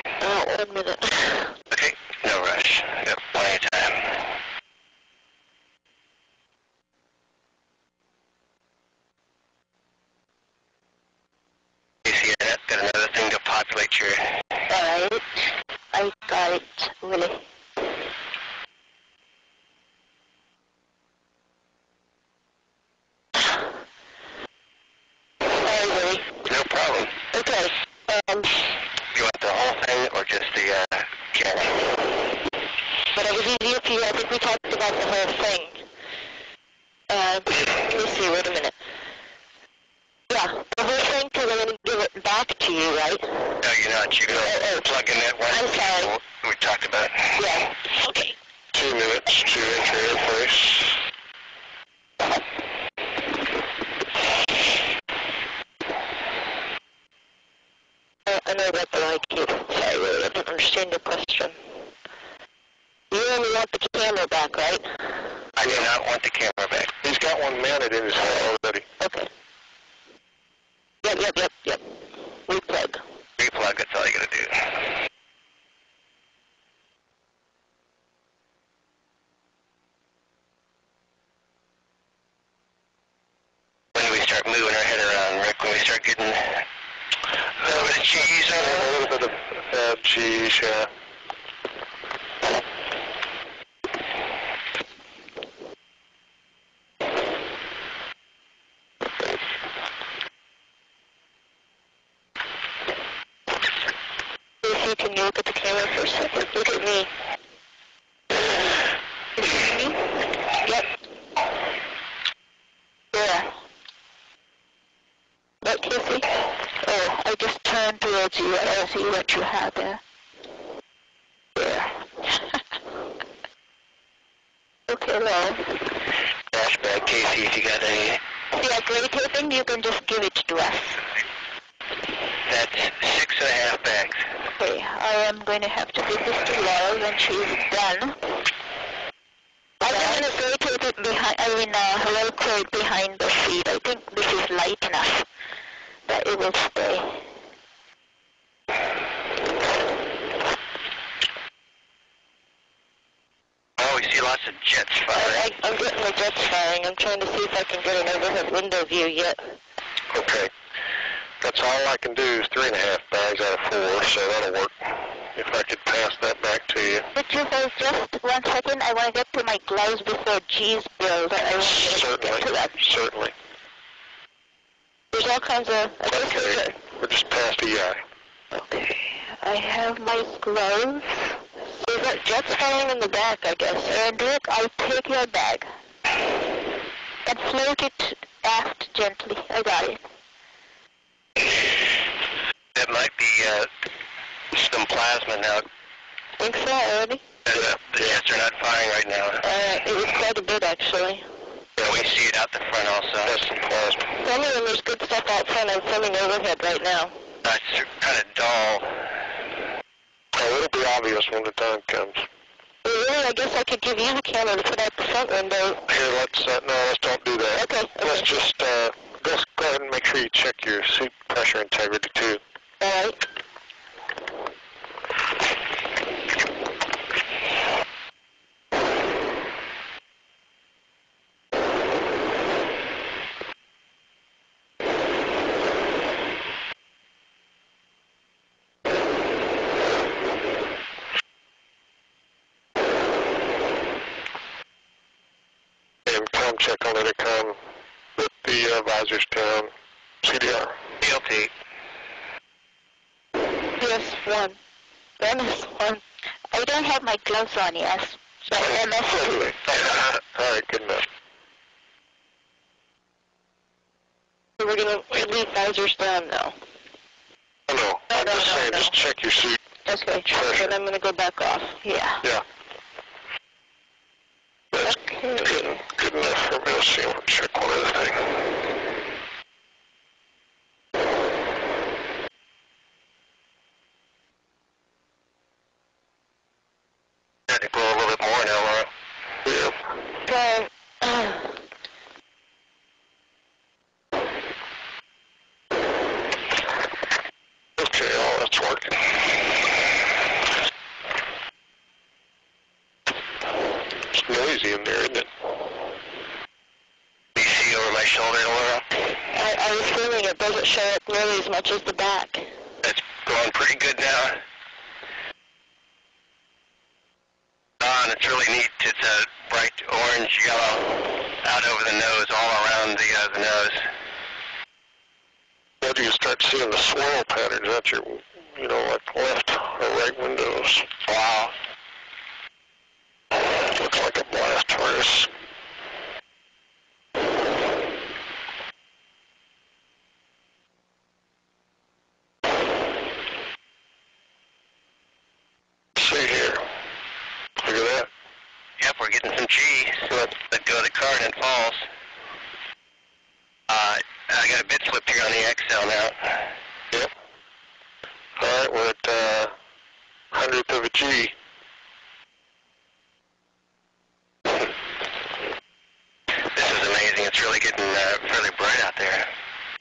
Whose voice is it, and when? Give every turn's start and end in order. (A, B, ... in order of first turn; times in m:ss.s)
0:00.2-0:01.5 A
0:01.7-0:04.2 B
0:12.0-0:14.3 B
0:14.7-0:17.4 C
0:25.5-0:26.3 A
0:26.4-0:27.2 B
0:27.3-0:28.6 A
0:29.1-0:31.9 B
0:33.1-0:35.8 A
0:37.1-0:38.8 A
0:40.3-0:43.3 A
0:43.6-0:47.4 B
0:44.4-0:44.9 A
0:45.5-0:46.1 A
0:47.4-0:48.4 A
0:48.7-0:51.0 D
0:58.3-1:01.6 A
1:03.1-1:04.9 A
1:05.6-1:06.9 B
1:05.6-1:05.9 D
1:07.0-1:08.9 D
1:09.0-1:09.3 A
1:11.0-1:11.8 A
1:12.5-1:13.0 A
1:13.4-1:14.8 B
1:24.0-1:26.6 B
1:27.6-1:29.0 B
1:27.6-1:30.9 D
1:44.6-1:47.1 A
1:49.5-1:50.0 C
1:53.1-1:53.6 C
1:55.6-1:56.3 A
1:56.8-2:00.0 C
2:01.6-2:01.8 C
2:04.9-2:05.7 C
2:06.5-2:08.2 B
2:08.6-2:11.0 C
2:12.5-2:14.2 B
2:14.6-2:18.3 C
2:19.8-2:21.0 A
2:19.9-2:20.3 C
2:21.0-2:25.3 C
2:26.1-2:27.3 C
2:33.8-2:35.5 B
2:35.1-2:39.5 A
2:40.1-2:40.5 D
2:41.4-2:47.1 D
2:47.2-2:52.8 C
2:51.3-2:52.1 A
2:51.8-2:53.3 D
2:55.1-2:56.8 A
2:56.1-2:58.0 D
2:58.6-2:58.9 A
2:58.7-3:01.4 C
3:01.8-3:04.0 A
3:03.9-3:05.7 C
3:07.2-3:10.0 C
3:12.8-3:13.7 B
3:14.5-3:15.6 B
3:16.4-3:17.2 A
3:17.4-3:19.4 B
3:17.5-3:18.1 D
3:19.4-3:21.2 A
3:21.8-3:23.4 B
3:23.2-3:24.1 D
3:24.2-3:27.1 A
3:27.4-3:29.1 B
3:30.3-3:32.2 D
3:32.8-3:35.8 A
3:35.9-3:42.4 D
3:37.5-3:38.3 A
3:42.8-3:43.2 A
4:06.1-4:07.6 D
4:08.2-4:09.7 D
4:10.2-4:10.8 D
4:11.0-4:11.5 B
4:13.8-4:14.6 A
4:15.2-4:16.0 A
4:16.5-4:19.6 C
4:18.5-4:18.8 A
4:19.2-4:21.1 D
4:24.6-4:26.6 A
4:27.7-4:29.6 D
4:28.1-4:29.0 A
4:29.9-4:31.9 A
4:30.3-4:30.8 D
4:31.8-4:32.2 C
4:34.7-4:38.4 D
4:34.8-4:35.8 A
4:47.5-4:48.9 B
4:49.4-4:49.8 D
4:50.3-4:51.5 A
4:57.8-4:59.2 D
5:04.1-5:05.3 D
5:07.4-5:08.9 B
5:09.3-5:12.5 A
5:12.8-5:14.4 B
5:17.8-5:23.9 B
5:25.8-5:30.9 D
5:31.1-5:31.5 B
5:33.5-5:35.3 D
5:46.0-5:46.6 D
5:47.6-5:48.1 D
5:48.8-5:51.9 B
5:50.1-5:50.4 D
5:53.7-5:56.5 B
5:58.4-5:59.5 D
6:00.3-6:01.3 D
6:06.5-6:09.3 B